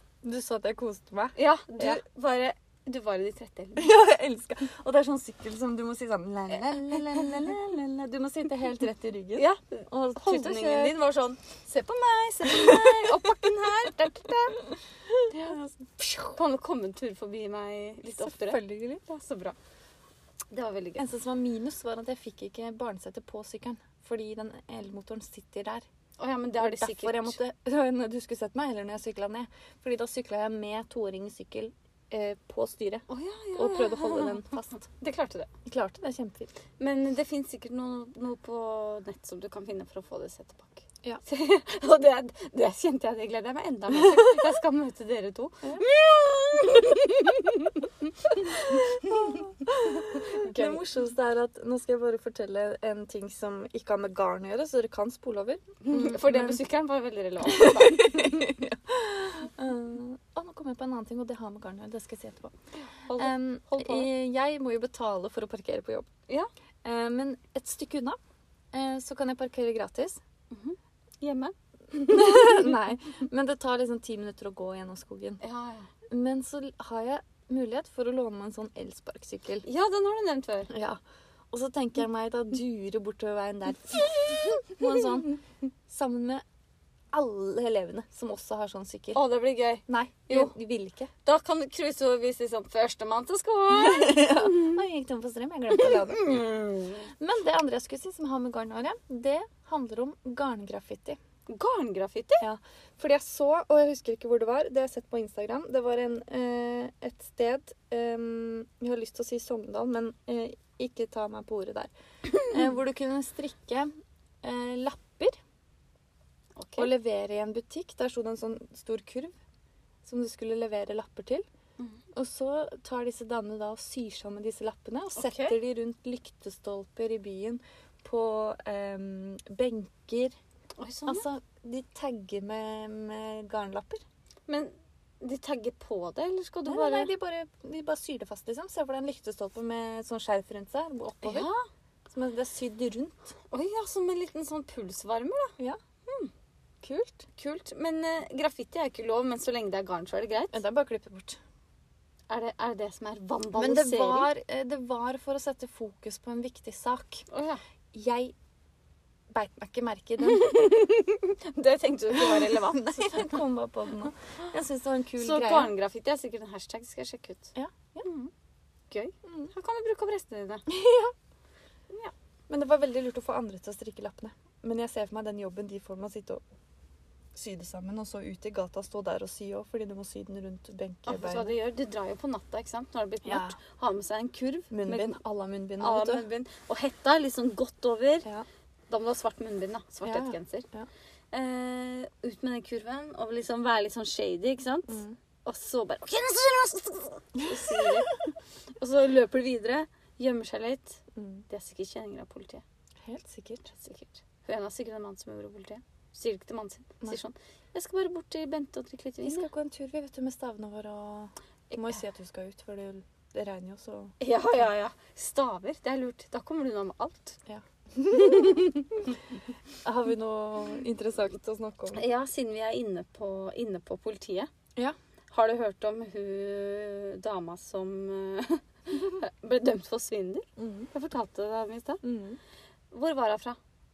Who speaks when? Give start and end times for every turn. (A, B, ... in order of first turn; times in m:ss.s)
0:00.2-0:02.0 A
0:01.4-0:03.9 B
0:03.8-0:11.0 A
0:09.4-0:14.6 B
0:12.4-0:13.3 A
0:15.1-0:16.4 A
0:15.3-0:15.6 B
0:16.3-0:19.6 B
0:18.1-0:19.0 A
0:20.5-0:21.0 B
0:21.0-0:25.9 A
0:26.2-0:27.4 B
0:26.6-0:34.8 A
0:33.1-0:35.5 B
0:35.6-0:36.5 A
0:36.8-0:50.8 B
0:48.4-0:56.6 A
0:55.8-0:58.6 B
0:57.4-1:02.6 A
1:02.9-1:04.1 B
1:03.2-1:06.1 A
1:06.8-1:08.2 A
1:08.7-1:10.2 A
1:10.5-1:12.7 B
1:12.0-1:15.4 A
1:15.4-1:15.9 B
1:16.1-1:19.6 A
1:19.6-1:20.7 B
1:20.7-1:21.0 A
1:21.5-1:26.4 A
1:27.1-1:29.2 A
1:29.2-1:30.5 B
1:29.9-1:31.1 A
1:31.2-1:34.8 B
1:33.7-1:36.4 A
1:35.7-1:37.1 B
1:37.2-1:41.2 A
1:41.5-1:42.4 B
1:42.4-1:53.9 A
1:54.4-1:55.4 A
1:56.6-1:56.9 B
1:56.8-1:59.4 A
2:00.0-2:01.4 A
2:02.1-2:10.4 A
2:05.2-2:05.6 B
2:10.8-2:11.2 B
2:11.1-2:14.0 A
2:14.5-2:17.1 B
2:16.7-2:21.5 A
2:21.2-2:21.6 B
2:22.1-2:23.3 A
2:23.5-2:25.6 B
2:26.8-2:27.3 A
2:27.4-2:30.6 B
2:30.5-2:31.4 A
2:32.3-2:34.3 B
2:33.6-2:37.3 A
2:37.3-2:37.6 B
2:37.9-2:38.3 A
2:39.3-2:40.5 A
2:40.2-2:43.4 B
2:42.1-2:45.7 A
2:45.2-2:48.3 B
2:47.6-2:48.1 A
2:48.9-2:50.7 B
2:49.2-2:49.5 A
2:50.7-2:51.1 A
2:52.5-2:56.4 A
2:57.3-3:01.6 A
3:01.1-3:05.2 B
3:03.2-3:03.6 A
3:04.7-3:06.2 A
3:05.8-3:08.3 B
3:08.9-3:10.7 B
3:10.0-3:10.9 A
3:11.3-3:18.2 B
3:14.9-3:15.2 A
3:17.4-3:18.1 A
3:18.8-3:22.6 B
3:21.2-3:21.5 A
3:23.0-3:23.7 A
3:23.7-3:29.5 B
3:29.2-3:34.2 A
3:31.7-3:32.0 B
3:34.2-3:37.4 B
3:37.5-3:39.1 A
3:38.1-3:39.2 B
3:39.8-3:42.0 A
3:41.9-3:44.5 B
3:45.3-3:52.0 B
3:50.6-3:50.9 A
3:52.0-3:52.4 A
3:52.9-3:53.6 B